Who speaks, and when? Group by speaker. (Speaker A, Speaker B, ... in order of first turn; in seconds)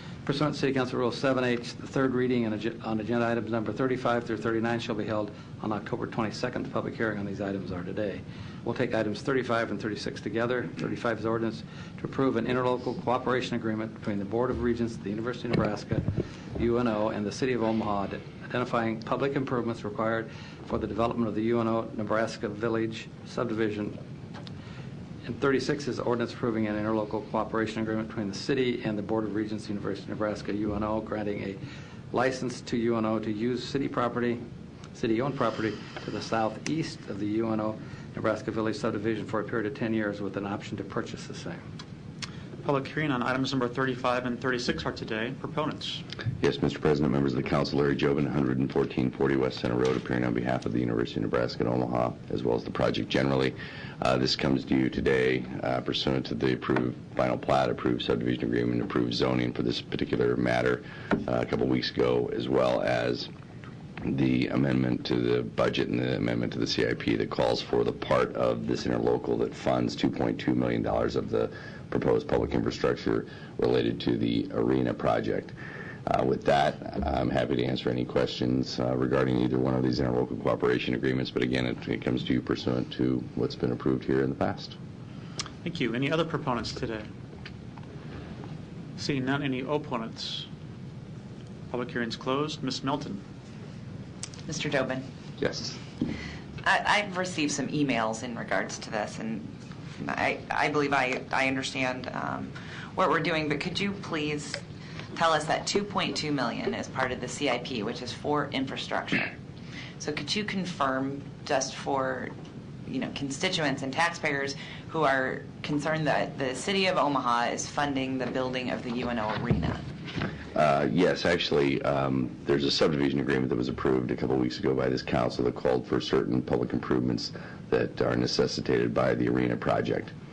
Speaker A: 0.2-16.0, 16.6-24.0, 25.2-31.6, 32.1-34.4, 34.9-41.6
Speaker B: 42.6-46.0, 85.6-87.1, 89.0-90.5, 91.7-93.2
Speaker C: 46.4-63.3, 64.0-75.5, 76.1-84.8, 95.4-95.8, 120.5-130.1
Speaker D: 94.5-95.0, 96.6-104.6, 105.2-109.3, 110.0-112.3, 112.9-119.8